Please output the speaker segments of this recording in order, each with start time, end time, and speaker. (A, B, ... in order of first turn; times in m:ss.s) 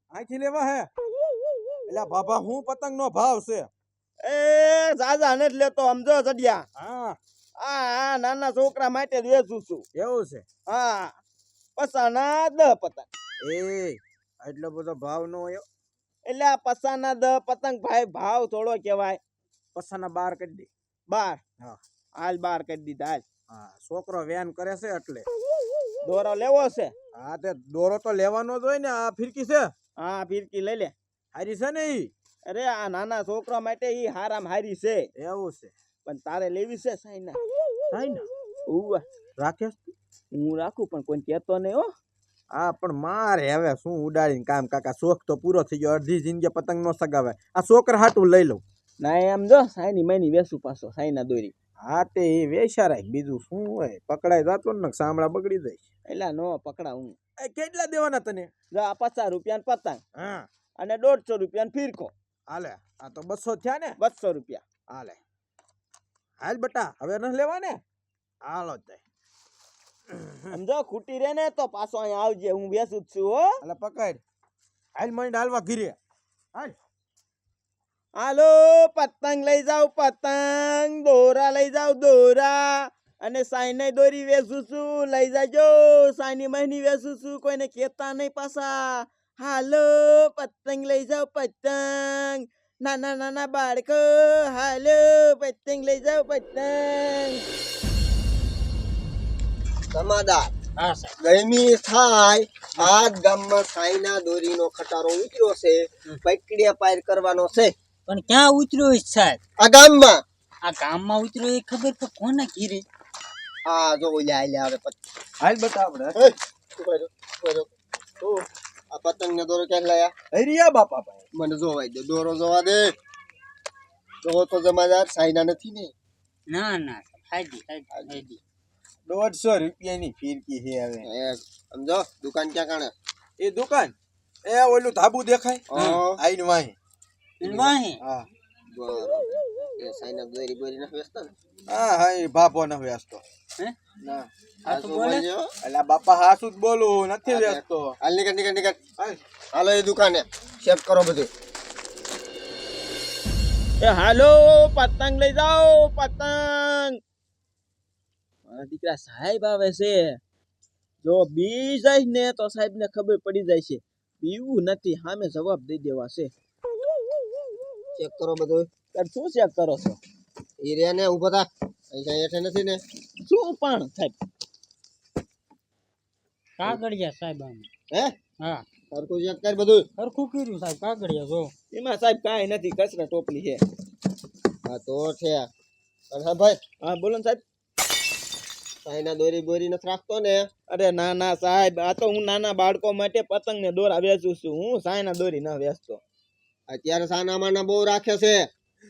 0:00.1-0:00.9 A
0:01.9-0:03.7 A
0:04.2-0:06.6 B
0:06.8-0:07.2 A
0:07.6-0:09.8 B
0:09.9-0:10.4 A
0:10.7-0:11.1 B
0:11.8-0:13.1 B
0:13.4-0:15.6 A
0:16.2-0:19.2 B
0:19.7-0:20.7 A
0:21.1-0:21.4 B
0:22.2-0:23.2 B
0:23.5-0:25.2 A
0:26.0-0:26.9 B
0:27.1-0:29.7 A
0:30.0-0:30.9 B
0:31.3-0:32.1 A
0:32.5-0:35.1 B
0:35.2-0:35.7 A
0:36.0-0:37.4 B
0:37.9-0:38.3 A
0:38.7-0:39.0 B
0:39.4-0:39.9 A
0:40.3-0:41.9 B
0:42.5-0:48.6 A
0:49.0-0:51.5 B
0:51.8-0:55.8 A
0:56.1-0:57.2 B
0:57.4-0:58.5 A
0:58.7-1:00.0 B
1:00.2-1:00.5 A
1:00.8-1:02.1 B
1:02.5-1:04.0 A
1:04.0-1:04.6 B
1:04.9-1:05.2 A
1:06.4-1:07.8 A
1:08.4-1:09.0 A
1:10.1-1:10.5 A
1:10.5-1:13.5 B
1:13.6-1:14.2 A
1:14.9-1:16.0 A
1:18.2-1:37.4 B
1:39.9-1:40.5 C
1:40.8-1:41.1 D
1:41.2-1:47.7 C
1:48.1-1:49.4 D
1:49.6-1:50.2 C
1:50.6-1:52.8 D
1:53.6-1:55.0 C
1:55.4-1:56.2 A
1:56.1-1:57.7 C
1:58.9-2:00.1 C
2:00.3-2:01.2 A
2:01.3-2:02.9 C
2:04.2-2:05.9 C
2:06.5-2:08.4 D
2:07.9-2:08.2 C
2:09.0-2:11.1 A
2:11.0-2:12.9 C
2:13.4-2:16.7 A
2:15.7-2:16.2 C
2:17.4-2:18.0 D
2:17.4-2:18.3 A
2:18.7-2:21.3 C
2:21.7-2:23.2 A
2:24.0-2:24.3 A
2:24.6-2:25.2 D
2:24.6-2:25.5 C
2:25.6-2:27.9 A
2:27.2-2:28.8 C
2:29.5-2:31.3 C
2:33.8-2:37.0 B
2:38.5-2:40.2 B
2:41.0-2:46.3 B
2:48.0-2:48.7 C
2:48.9-2:50.0 B
2:50.6-2:52.8 C
2:53.2-2:54.1 B
2:56.6-2:57.7 D
2:58.9-2:59.9 C
3:00.0-3:01.5 D
3:01.7-3:03.6 B
3:04.6-3:05.5 C
3:06.1-3:06.6 C
3:06.8-3:07.4 B
3:08.8-3:10.5 C
3:10.7-3:16.0 B
3:16.7-3:18.5 C